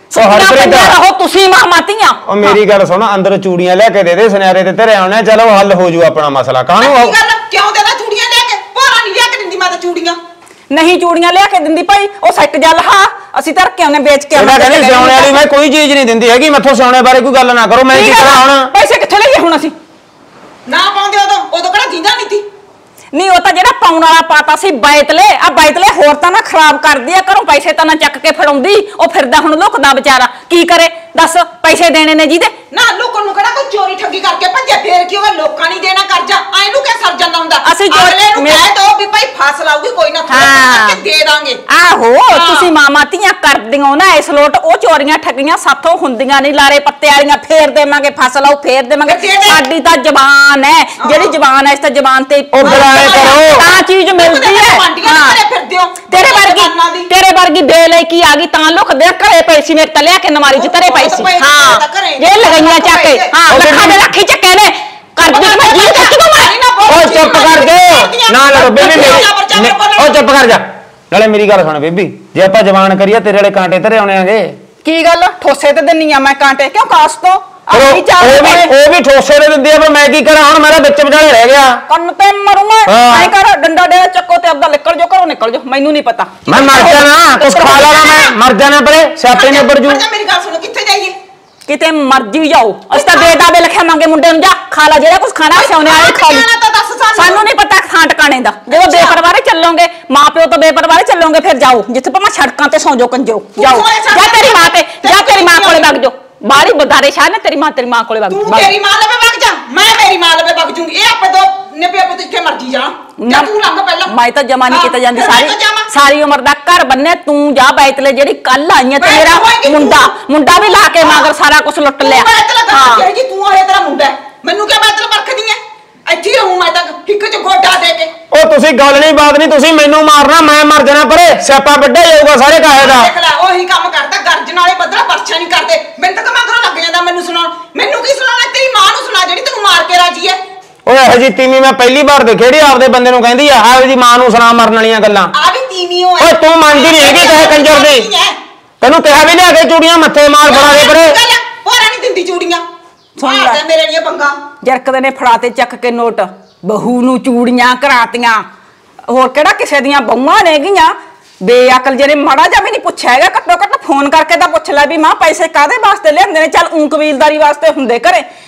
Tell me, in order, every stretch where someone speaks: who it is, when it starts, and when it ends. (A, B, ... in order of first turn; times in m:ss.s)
0:00.1-0:02.6 A
0:00.1-0:00.9 B
0:02.2-0:07.1 B
0:06.8-0:10.2 C
0:10.7-0:15.4 A
0:14.3-0:18.7 B
0:17.9-0:19.7 A
0:20.7-0:22.5 C
0:23.1-0:32.6 A
0:32.7-0:41.6 C
0:37.6-0:38.6 A
0:40.3-0:41.0 A
0:41.7-0:55.4 A
0:42.3-0:42.7 C
0:49.0-0:49.6 C
0:51.0-0:51.3 C
0:52.5-0:53.6 B
0:52.6-0:57.1 C
0:56.0-1:06.5 A
1:00.5-1:03.4 C
1:03.5-1:04.0 B
1:05.2-1:10.2 C
1:06.8-1:14.6 B
1:08.6-1:09.2 A
1:14.8-1:18.7 A
1:17.7-1:21.8 B
1:21.9-1:28.3 A
1:22.8-1:23.3 B
1:26.4-1:30.0 B
1:27.9-1:28.2 C
1:29.2-1:31.2 C
1:31.7-1:36.4 A
1:32.9-1:33.4 C
1:35.5-1:37.4 C
1:37.1-1:48.7 A
1:38.7-1:39.2 C
1:43.6-1:45.9 C
1:48.3-1:54.1 C
1:53.2-1:53.5 A
1:54.0-2:03.1 A
1:54.7-1:55.9 C
1:59.0-2:00.1 C
2:01.0-2:01.3 C
2:02.0-2:08.1 C
2:08.3-2:13.1 B
2:12.8-2:20.4 C
2:20.8-2:25.3 B
2:25.3-2:28.4 C
2:26.2-2:28.1 B
2:28.8-2:31.2 B
2:30.4-2:32.6 C
2:33.2-2:33.6 A
2:33.2-2:34.5 C
2:34.6-2:38.5 A
2:39.1-2:48.2 A